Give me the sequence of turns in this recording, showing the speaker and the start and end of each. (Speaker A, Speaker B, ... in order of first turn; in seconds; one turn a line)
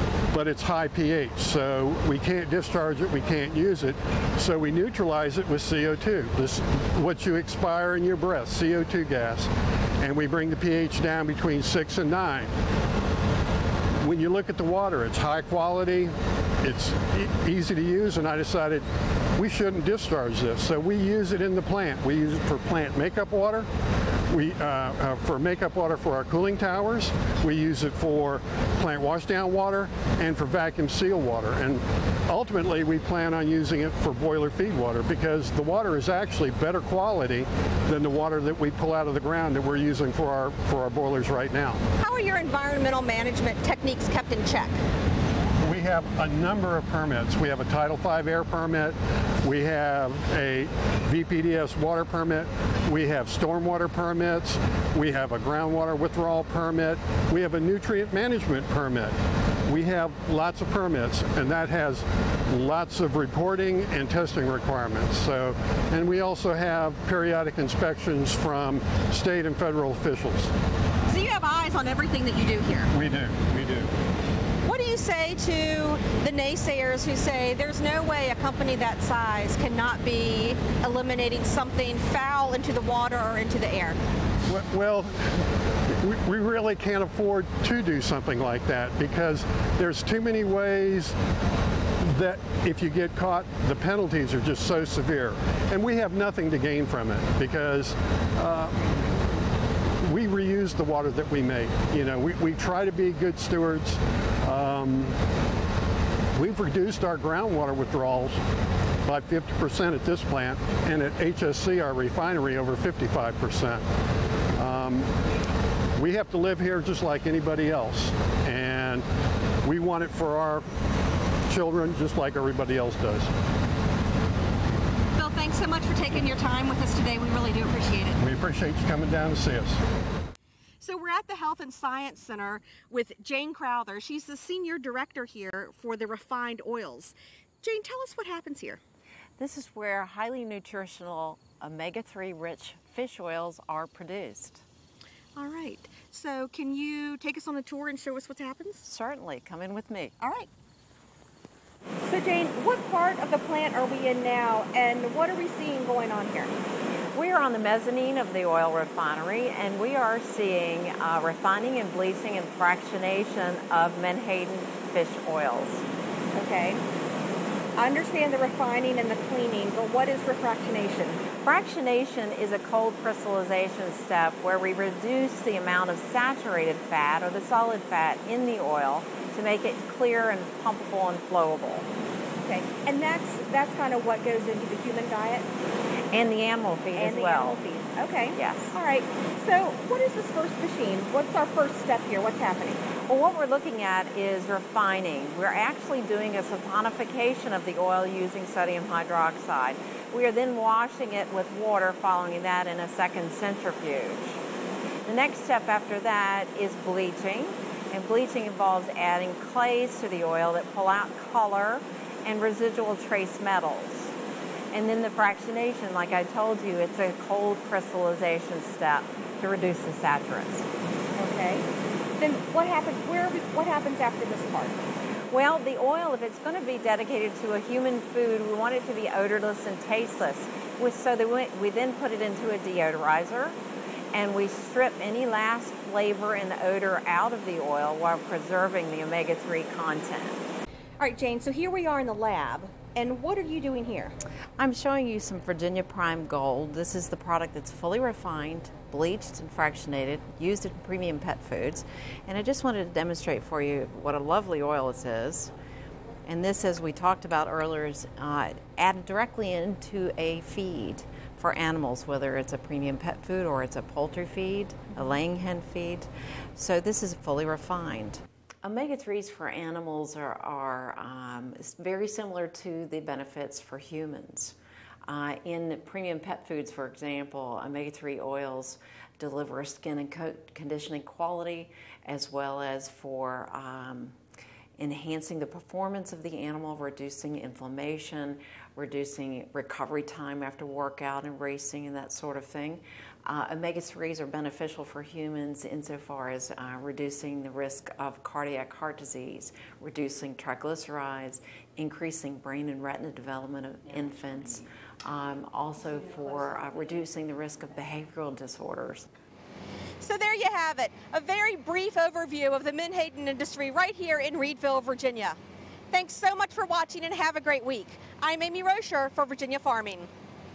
Speaker A: 0.3-12.5
Speaker A: 14.0-23.7
Speaker A: 24.3-41.8
Speaker B: 42.0-44.8
Speaker A: 45.6-70.5
Speaker B: 71.1-72.9
Speaker A: 72.9-73.9
Speaker B: 74.6-84.0
Speaker A: 84.5-91.2
Speaker A: 92.0-99.2
Speaker A: 100.0-105.2
Speaker A: 106.3-108.4
Speaker A: 109.0-113.9
Speaker A: 114.5-115.1
Speaker A: 115.9-119.0
Speaker A: 119.6-120.7
Speaker A: 121.5-123.3
Speaker B: 125.1-128.2
Speaker A: 128.2-129.8
Speaker B: 130.8-138.8
Speaker C: 139.4-144.6
Speaker B: 145.3-148.9
Speaker C: 148.8-150.1
Speaker B: 150.2-150.5
Speaker B: 152.0-156.5
Speaker C: 157.1-165.8
Speaker B: 166.3-166.8
Speaker B: 167.8-171.2
Speaker C: 171.4-181.9
Speaker B: 182.4-185.5
Speaker C: 186.1-187.6
Speaker B: 186.9-192.9
Speaker C: 188.3-188.8
Speaker C: 193.0-204.4
Speaker C: 205.1-214.1
Speaker C: 214.7-220.7
Speaker B: 221.2-224.8
Speaker C: 225.3-233.6
Speaker C: 234.1-240.4
Speaker B: 241.0-244.2
Speaker C: 244.6-255.5
Speaker C: 256.2-274.6
Speaker C: 275.1-284.2
Speaker C: 284.8-309.1
Speaker B: 310.0-315.4
Speaker B: 315.9-320.1